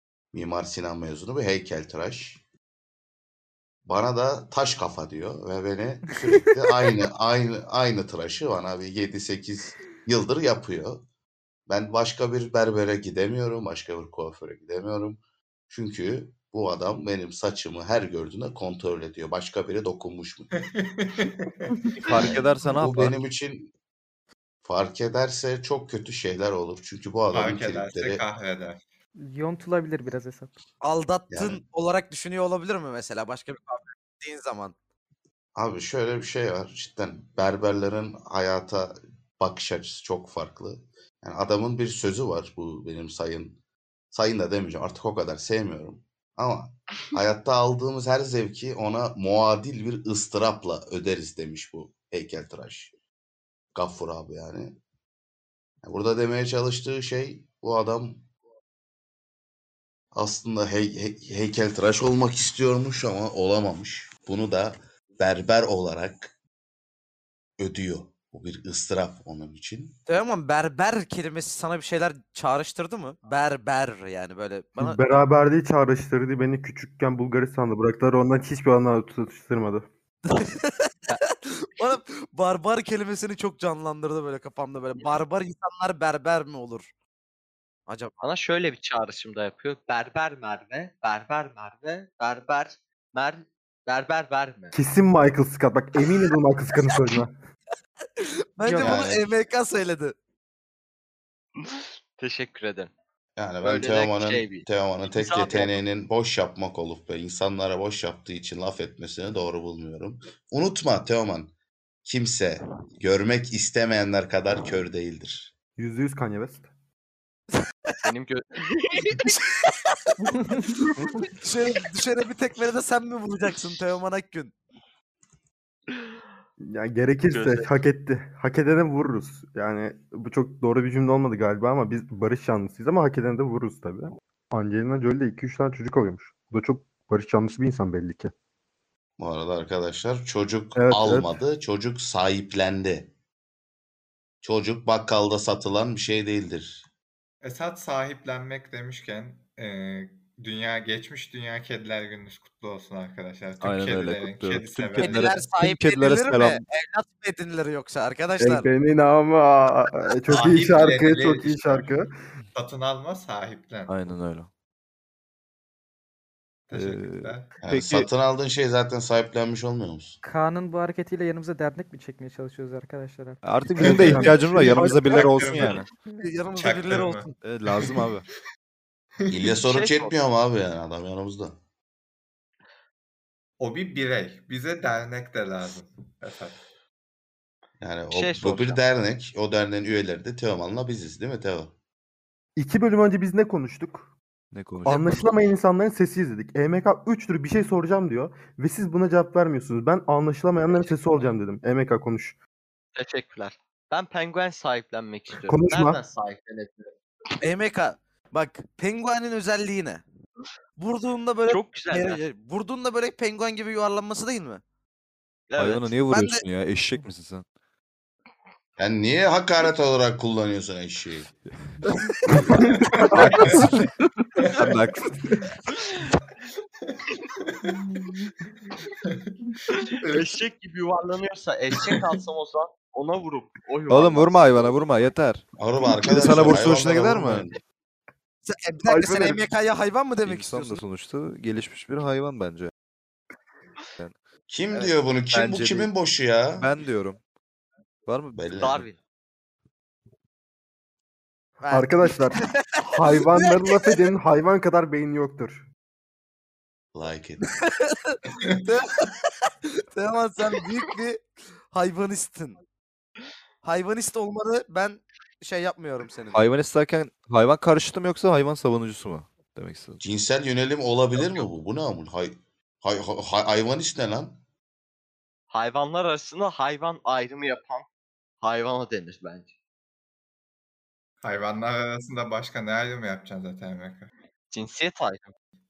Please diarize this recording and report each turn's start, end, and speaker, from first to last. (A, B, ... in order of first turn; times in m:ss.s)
0:00.3-0:02.4 A
0:03.8-0:11.0 A
0:11.7-0:20.5 A
0:20.5-0:22.3 B
0:22.0-0:23.2 C
0:22.2-0:23.7 A
0:24.6-0:28.2 A
0:27.3-0:28.8 B
0:29.2-0:30.5 D
0:30.8-0:34.7 E
0:31.3-0:31.6 A
0:35.6-0:43.6 A
0:44.1-0:52.9 A
0:53.8-0:54.8 A
0:55.8-0:58.2 A
1:00.1-1:06.3 A
1:07.6-1:10.0 A
1:10.1-1:15.1 E
1:14.8-1:19.9 F
1:20.2-1:26.9 E
1:27.9-1:28.1 E
1:28.2-1:34.8 G
1:34.7-1:37.3 F
1:38.2-1:40.2 E
1:38.6-1:38.9 D
1:38.8-1:39.3 A
1:41.6-1:42.9 G
1:43.4-1:51.5 A
1:43.6-1:45.8 G
1:52.1-1:55.5 A
1:55.8-1:56.7 F
1:58.0-1:59.4 G
1:59.2-2:00.1 E
2:01.2-2:04.5 E
2:06.6-2:18.3 F
2:07.3-2:07.7 G
2:19.2-2:23.1 A
2:20.8-2:21.4 F
2:24.4-2:26.8 A
2:27.4-2:35.5 B
2:33.6-2:36.6 C
2:35.0-2:38.7 E
2:38.4-2:42.1 F
2:40.3-2:42.0 B
2:42.6-2:44.1 B
2:43.9-2:44.5 C
2:46.7-2:47.6 B
2:46.7-2:48.1 C
2:47.6-2:50.2 A
2:50.2-2:53.4 D
2:53.4-2:55.9 C
2:53.8-2:55.9 B
2:53.8-2:57.3 E
2:53.9-2:54.4 F
2:56.6-2:58.1 B
2:57.4-2:58.2 C
2:59.2-2:59.6 B
2:59.3-3:01.6 A
2:59.7-3:00.1 G
3:03.6-3:06.6 B
3:07.8-3:11.7 A
3:08.1-3:08.8 G
3:12.6-3:14.1 F
3:14.5-3:15.2 C
3:14.8-3:22.4 F
3:23.0-3:26.9 G
3:25.4-3:26.0 F
3:27.4-3:30.0 E
3:30.8-3:34.6 E
3:31.5-3:32.2 G
3:35.5-3:35.9 G
3:35.6-3:37.5 C
3:36.0-3:36.4 E
3:38.8-3:41.3 A
3:41.5-3:41.8 C
3:42.7-3:43.7 B
3:43.0-3:43.9 C
3:43.5-3:43.8 E
3:44.4-3:44.8 B
3:44.6-3:45.2 C
3:49.8-3:54.8 G
3:53.9-3:55.4 C
3:55.6-3:57.6 A
3:56.0-3:57.5 C
3:58.5-4:00.8 E
3:58.8-3:59.4 F
4:00.2-4:02.7 C
4:04.5-4:06.8 A
4:04.7-4:05.9 C
4:06.6-4:07.2 C
4:08.1-4:08.4 C
4:08.4-4:08.9 A
4:08.6-4:09.0 G
4:11.6-4:13.8 E
4:11.7-4:15.6 F
4:16.9-4:17.5 A
4:17.5-4:22.6 E
4:23.6-4:26.4 E
4:26.3-4:30.0 C
4:30.0-4:34.4 A
4:35.5-4:37.9 G
4:38.4-4:39.5 G
4:41.2-4:44.1 B
4:44.5-4:45.3 G